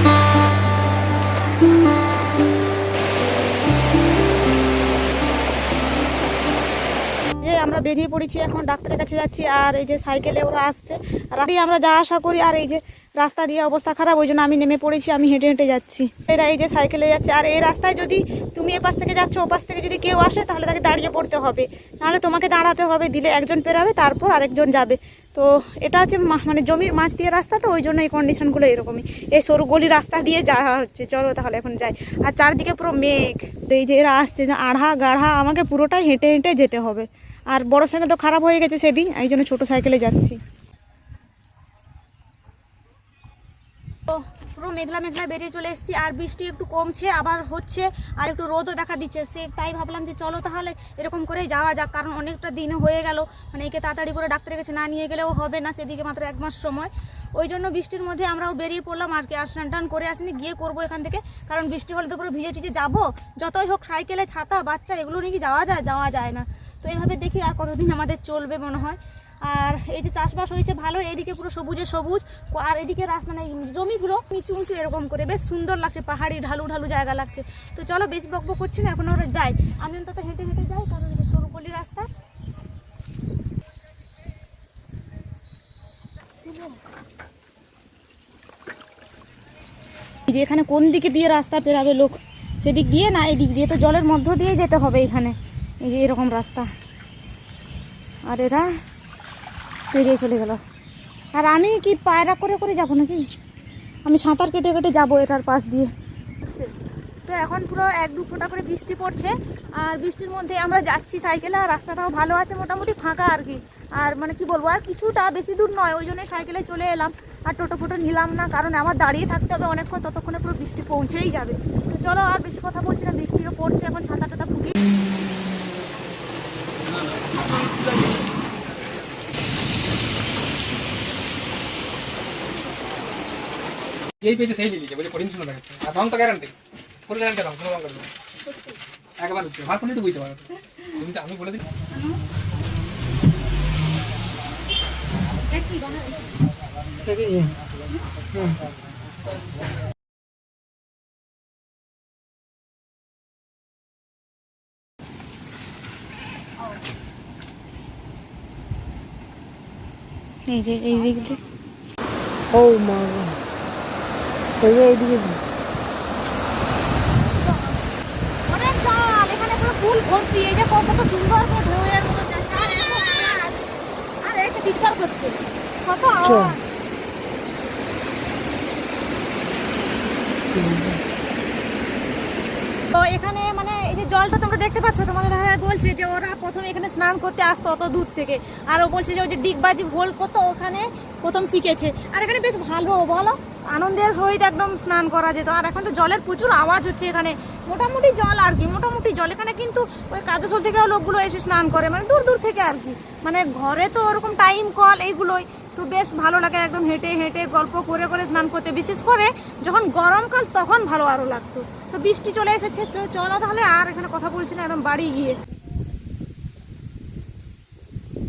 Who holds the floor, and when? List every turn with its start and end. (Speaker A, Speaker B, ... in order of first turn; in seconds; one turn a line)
Speaker A: 7.4-40.4
Speaker A: 44.1-82.1
Speaker A: 86.4-86.8
Speaker A: 90.3-96.7
Speaker A: 98.2-98.7
Speaker A: 99.9-100.6
Speaker A: 101.3-103.3
Speaker A: 104.0-106.7
Speaker A: 107.2-124.8
Speaker B: 126.9-128.2
Speaker B: 134.2-136.5
Speaker B: 137.1-138.1
Speaker A: 138.4-138.8
Speaker B: 139.2-141.6
Speaker A: 141.9-142.2
Speaker A: 145.5-146.3
Speaker A: 160.5-161.4
Speaker C: 162.5-163.3
Speaker C: 164.6-165.4
Speaker A: 167.3-167.8
Speaker A: 168.5-173.6
Speaker A: 174.2-176.6
Speaker C: 180.6-180.9
Speaker A: 182.9-215.4